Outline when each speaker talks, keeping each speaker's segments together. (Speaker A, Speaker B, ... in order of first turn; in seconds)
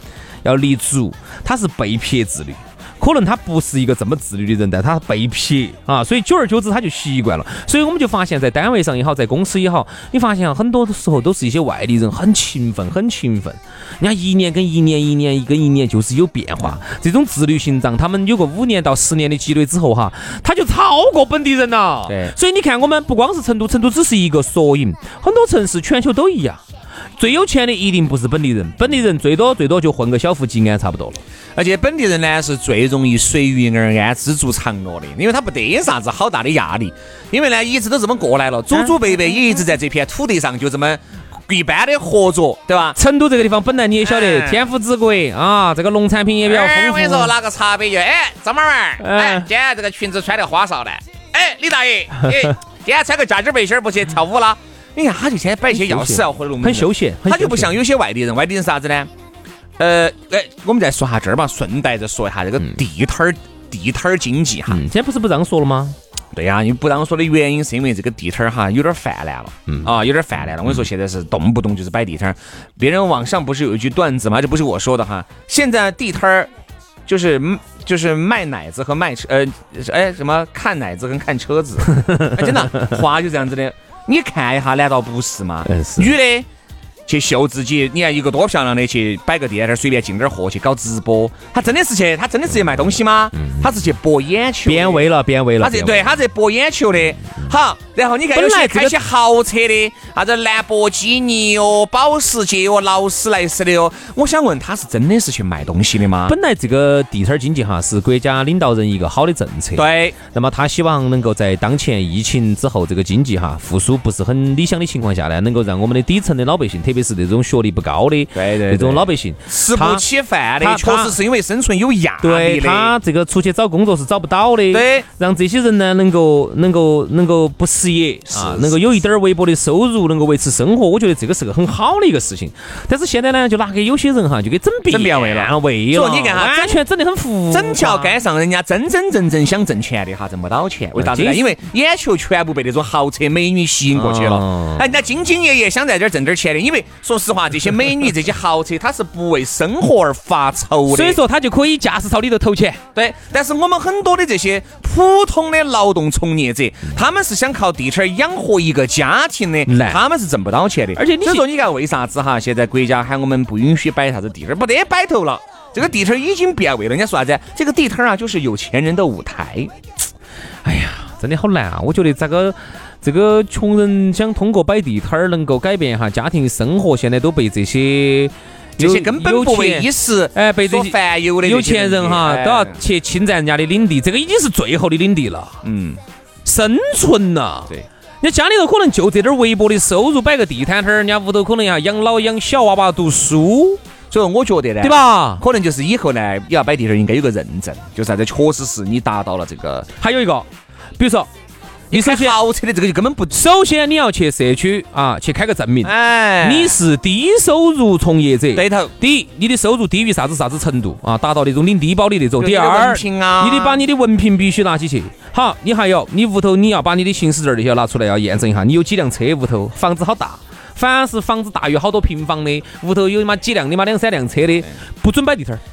Speaker A: 0.4-26.6, 27.2-31.2, 43.0-47.3, 49.0-49.5, 55.7-57.8, 64.7-66.0, 82.0-82.8, 85.7-86.1, 94.7-96.2, 98.3-99.0, 106.2-120.0, 120.6-121.2, 122.2-138.2, 141.0-141.5, 143.9-144.8, 150.9-152.8, 159.7-160.0, 161.0-161.4, 170.6-185.6, 186.4-193.8, 194.8-195.4, 200.0-200.5, 201.0-201.3, 201.9-202.4, 203.3-225.6
Speaker B: 22.1-22.3, 31.6-43.0, 44.0-44.6, 46.4-59.1, 59.8-64.8, 66.3-76.5, 77.1-86.5, 87.1-95.1, 95.6-106.3, 109.8-110.2, 118.3-122.9, 124.7-125.0, 128.3-128.8, 134.9-136.8, 137.5-151.2, 152.9-169.7, 178.8-182.8, 185.6-186.0, 194.1-199.9, 201.9-203.4, 205.8-206.8, 208.6-208.9, 212.4-213.8